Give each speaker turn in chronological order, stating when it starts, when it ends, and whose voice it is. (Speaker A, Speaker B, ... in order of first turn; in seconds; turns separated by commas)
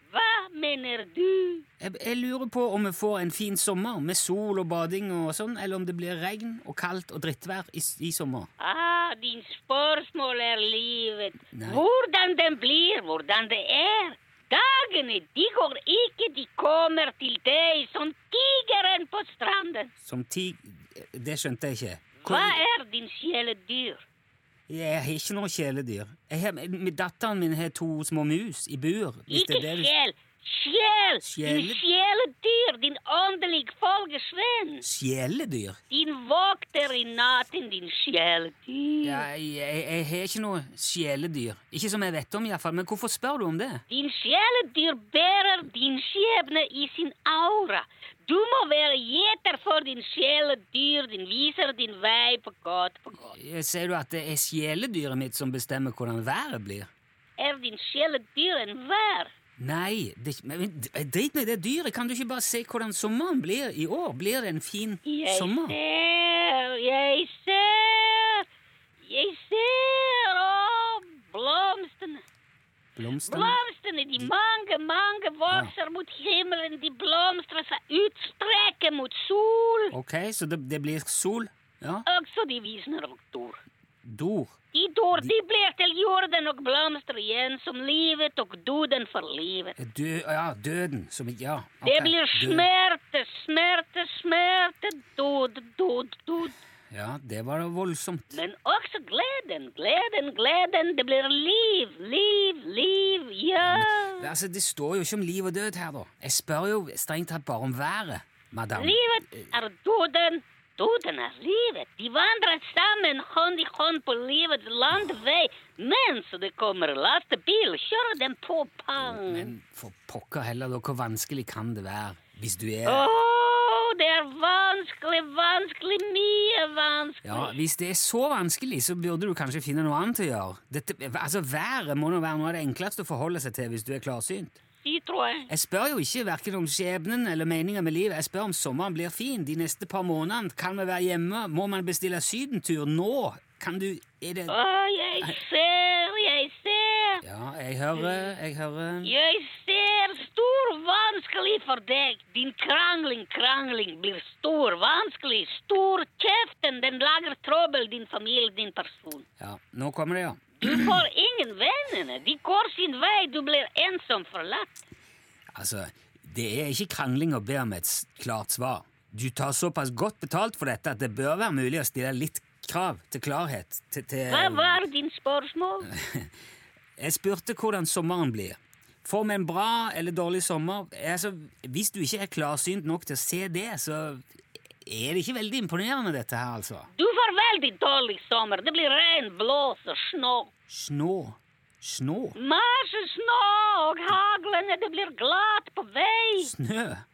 Speaker A: 0.1-1.7, Speaker B: 1.8-8.5, Speaker A: 8.6-19.9, Speaker B: 11.5-11.8, Speaker B: 20.1-22.6, Speaker A: 22.2-24.0, Speaker B: 24.7-29.9, Speaker A: 29.3-34.8, Speaker B: 31.2-31.8, Speaker B: 34.8-35.8, Speaker A: 35.9-39.2, Speaker B: 39.0-43.8, Speaker A: 43.9-53.3, Speaker B: 53.3-56.9, Speaker A: 57.4-59.3, Speaker B: 59.6-65.8, Speaker A: 65.1-68.5, Speaker A: 69.0-72.2, Speaker B: 73.0-73.6, Speaker A: 73.3-79.9, Speaker B: 79.9-82.1, Speaker A: 82.1-83.6, Speaker B: 84.0-84.6, Speaker A: 84.7-89.8, Speaker B: 89.8-92.7, Speaker A: 91.8-96.5, Speaker B: 96.9-98.4, Speaker A: 98.3-104.3, Speaker B: 103.7-109.5, Speaker A: 108.8-119.5, Speaker B: 119.2-123.1, Speaker A: 122.9-127.5, Speaker B: 127.2-134.6, Speaker A: 134.8-135.5, Speaker B: 135.5-144.6, Speaker A: 144.5-147.2, Speaker B: 147.2-149.1, Speaker A: 149.0-159.2, Speaker B: 159.4-160.9, Speaker A: 160.6-164.7, Speaker B: 165.5-174.8, Speaker A: 174.3-175.9, Speaker B: 175.9-176.3, Speaker B: 177.0-184.2, Speaker B: 184.8-186.9, Speaker A: 187.0-190.5, Speaker B: 190.7-192.4, Speaker A: 192.4-196.5, Speaker B: 196.4-197.1